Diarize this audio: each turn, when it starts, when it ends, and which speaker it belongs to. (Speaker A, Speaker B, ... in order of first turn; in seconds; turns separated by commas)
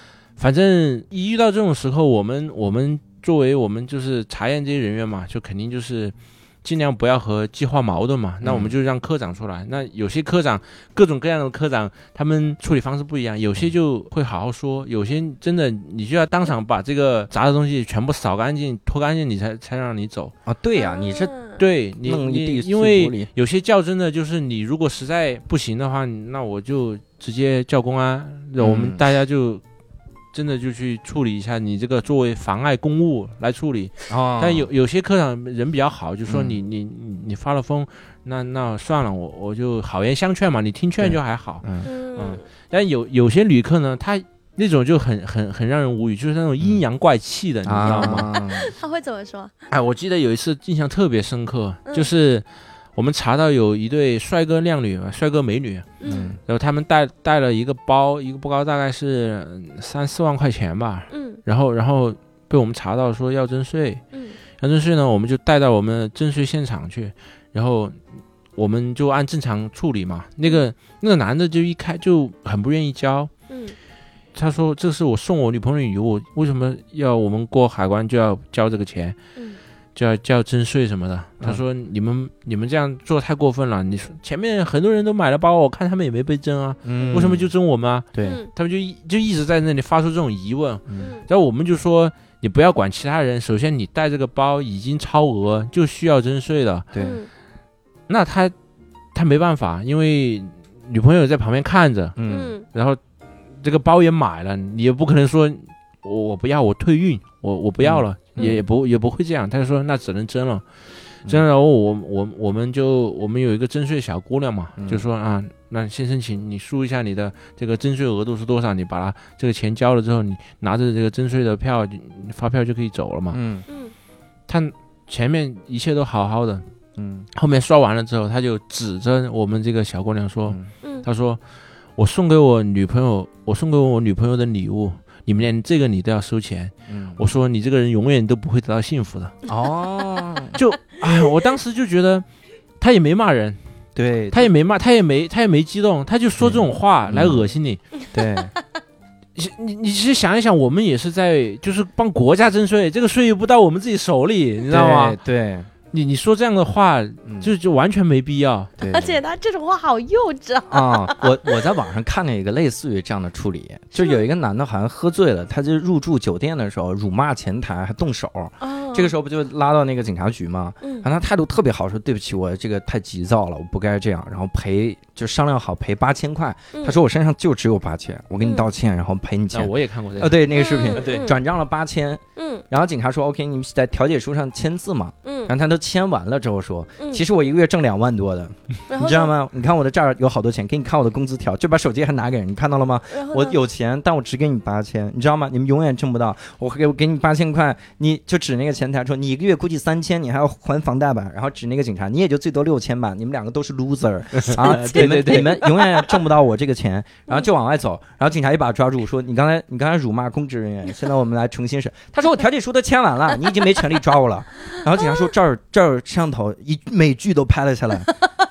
Speaker A: 0.4-20.3, Speaker B: 8.4-8.7, Speaker B: 20.4-21.3, Speaker C: 20.8-21.6, Speaker A: 21.6-29.6, Speaker B: 22.0-23.3, Speaker B: 28.6-29.0, Speaker A: 30.3-48.3, Speaker B: 34.1-34.7, Speaker B: 36.3-36.6, Speaker B: 41.0-41.9, Speaker C: 41.8-42.4, Speaker B: 47.6-48.7, Speaker C: 47.9-49.5, Speaker A: 49.7-52.4, Speaker A: 53.0-55.9, Speaker C: 56.0-56.3, Speaker B: 56.0-56.4, Speaker A: 56.5-64.0, Speaker C: 61.1-61.4, Speaker A: 64.6-68.0, Speaker A: 68.5-73.3, Speaker C: 73.5-73.8, Speaker A: 74.3-79.2, Speaker A: 79.9-96.9, Speaker B: 86.8-87.5, Speaker B: 88.1-88.4, Speaker C: 88.2-88.5, Speaker B: 96.9-97.2, Speaker C: 97.0-97.3, Speaker A: 98.1-98.5, Speaker A: 99.1-103.0, Speaker B: 102.2-102.5, Speaker C: 102.3-102.6, Speaker A: 103.6-110.6, Speaker B: 107.8-108.6, Speaker A: 111.2-123.4, Speaker B: 114.8-115.0, Speaker B: 123.3-123.6, Speaker A: 124.5-126.6, Speaker B: 127.0-127.3, Speaker A: 127.3-131.4, Speaker A: 132.0-139.3, Speaker B: 136.9-137.2, Speaker B: 139.5-140.6, Speaker A: 140.5-142.2, Speaker A: 142.8-143.6, Speaker B: 143.9-144.5, Speaker A: 144.3-147.8, Speaker B: 146.4-147.5, Speaker B: 148.1-148.5, Speaker A: 149.3-155.2, Speaker B: 154.7-155.7, Speaker A: 155.9-158.7, Speaker B: 157.2-157.5, Speaker B: 158.8-159.2, Speaker C: 158.8-161.5, Speaker B: 160.7-218.1, Speaker C: 163.9-164.2, Speaker C: 168.6-169.1, Speaker C: 170.8-171.1, Speaker C: 176.7-177.0, Speaker C: 178.4-178.7, Speaker A: 179.5-180.4, Speaker C: 180.5-181.4, Speaker C: 182.3-182.6, Speaker C: 185.2-185.5, Speaker C: 188.9-189.3, Speaker C: 193.1-193.6, Speaker A: 204.4-205.6, Speaker C: 204.7-205.7